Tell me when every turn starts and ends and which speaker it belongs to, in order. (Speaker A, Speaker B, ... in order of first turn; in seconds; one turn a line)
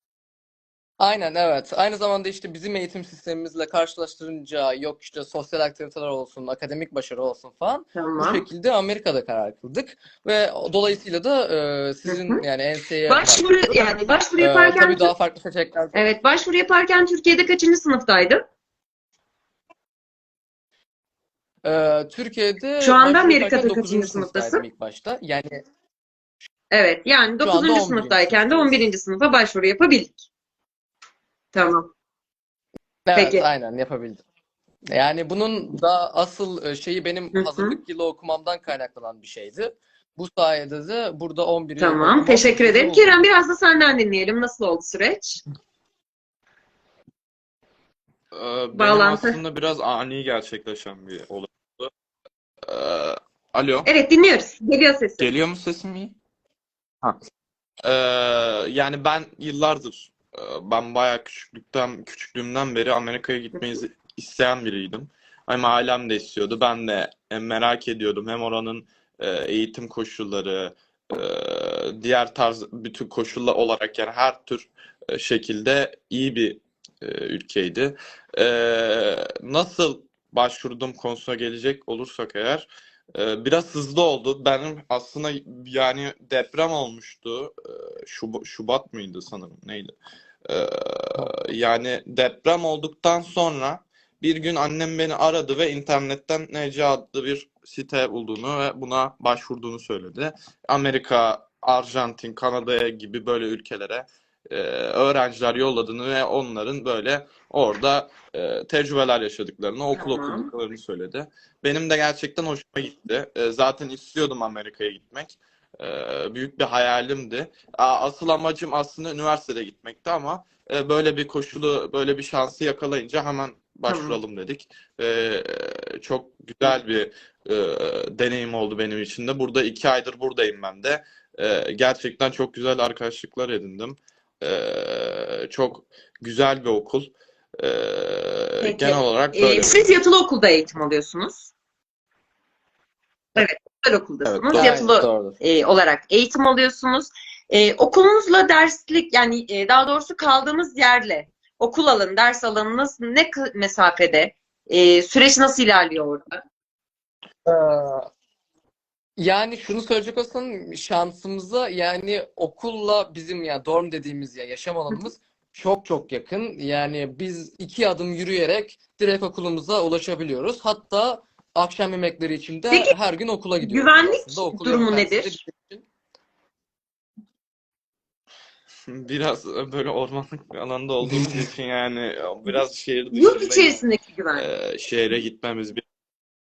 Speaker A: 1.0-13.7
Speaker B: 8.0-8.4
Speaker B: 12.1-12.4
Speaker B: 13.1-15.1
Speaker A: 14.4-16.0
Speaker B: 15.9-18.4
Speaker A: 21.6-25.6
Speaker B: 22.8-24.6
Speaker B: 26.7-30.2
Speaker A: 27.4-28.8
Speaker B: 31.5-31.9
Speaker A: 33.1-34.2
Speaker B: 33.2-33.5
Speaker A: 34.9-43.2
Speaker B: 37.4-37.8
Speaker B: 41.8-45.4
Speaker C: 48.3-51.9
Speaker B: 48.7-49.4
Speaker C: 52.7-53.9
Speaker B: 53.9-55.3
Speaker C: 55.2-56.1
Speaker C: 57.8-89.9
Speaker C: 90.5-139.9
Speaker B: 109.9-110.5
Speaker B: 123.9-124.2
Speaker B: 138.6-141.5
Speaker B: 143.4-156.4
Speaker C: 144.2-144.8
Speaker A: 144.5-145.4
Speaker A: 157.5-158.1
Speaker A: 159.2-175.8
Speaker B: 173.6-175.4
Speaker C: 178.9-183.8
Speaker B: 183.1-184.4
Speaker C: 184.3-185.8